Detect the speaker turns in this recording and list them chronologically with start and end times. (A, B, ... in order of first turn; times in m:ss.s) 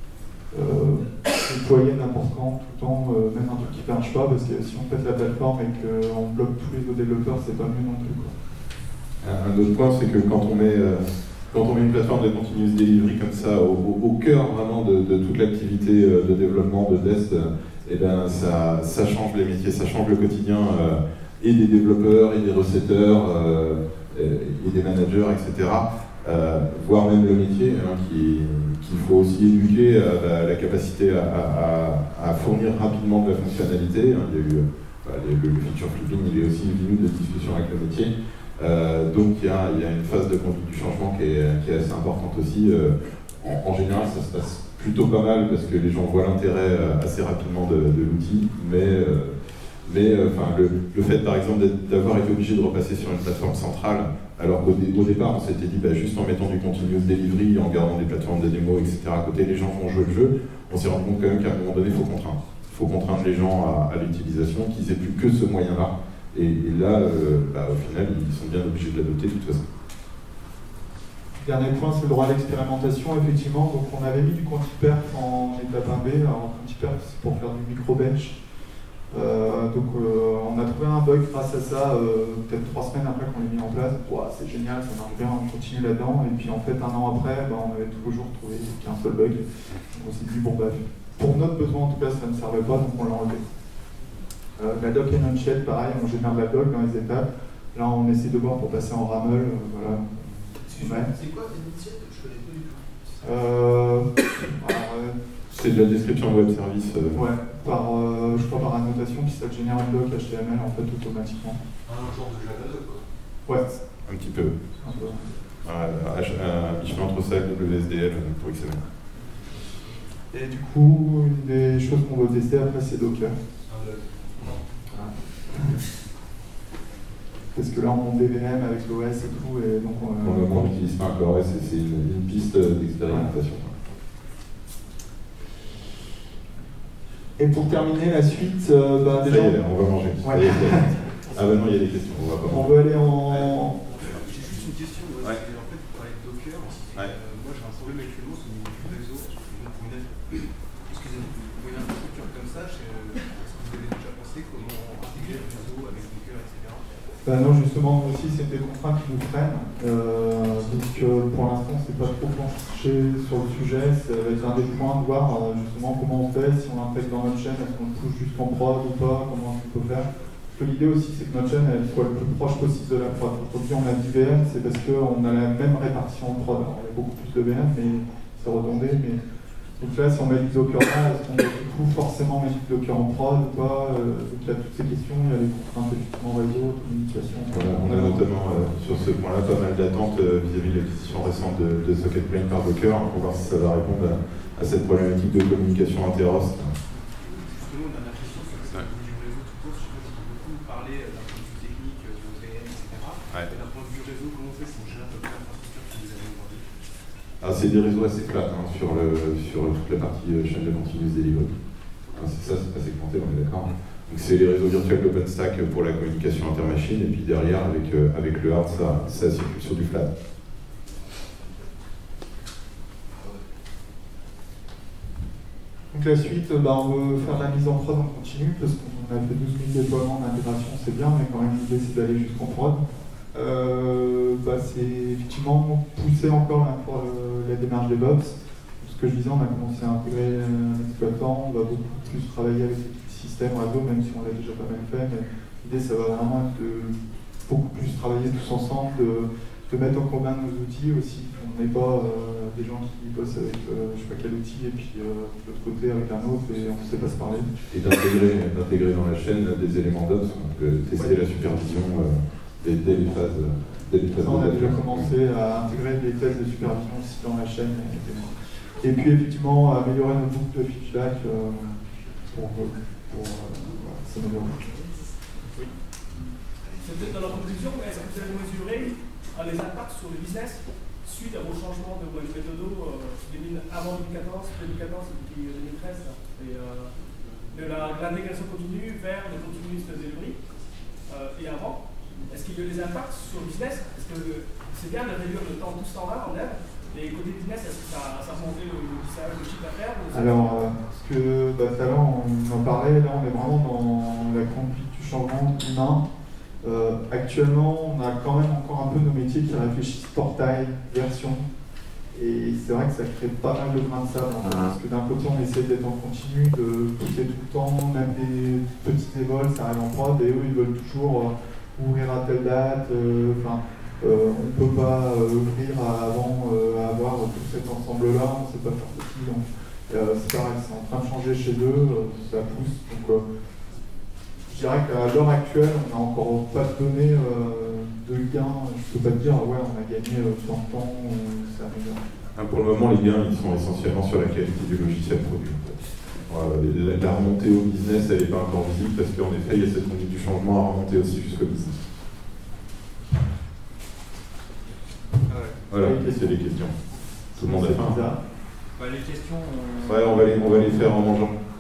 0:00.5-0:08.4 A
0:09.2-1:09.7 B
1:11.4-1:18.4 A
1:19.1-1:33.5 A
1:34.6-1:41.1 A
1:40.6-1:43.3 C
1:43.2-1:45.2 A
1:45.5-1:47.2 B
1:47.1-1:51.6 A
1:51.9-1:53.1 C
1:53.5-1:53.7 A
1:54.0-1:54.6 B
1:54.8-1:55.2 A
1:55.6-1:58.8 B
2:00.3-2:03.4 A
2:03.7-2:04.6 C
2:07.5-2:10.7 A
2:10.2-2:13.7 B
2:17.4-2:19.6 A
2:19.2-2:22.7 B
2:20.2-2:21.1 A
2:22.5-2:23.8 A
2:23.8-2:37.0 C
2:37.2-2:59.2 A
2:59.8-3:08.6 A
3:07.5-3:16.8 B
3:16.9-3:26.8 C
3:27.4-3:31.6 B
3:32.1-3:40.1 B
3:43.1-3:43.4 C
3:45.9-4:17.6 A
4:17.7-4:25.1 B
4:21.0-4:21.2 A
4:24.1-4:34.8 A
4:36.6-4:37.2 C
4:36.8-4:50.5 D
4:51.1-5:00.7 D
5:00.1-5:06.1 A
5:06.6-5:11.5 A
5:12.1-5:33.2 A
5:34.5-5:42.0 A
5:42.4-5:51.8 B
5:55.3-5:56.5 A
5:55.7-5:56.8 B
5:57.3-5:58.2 A
5:57.4-5:58.0 B
5:58.8-6:00.8 A
5:59.8-6:01.4 B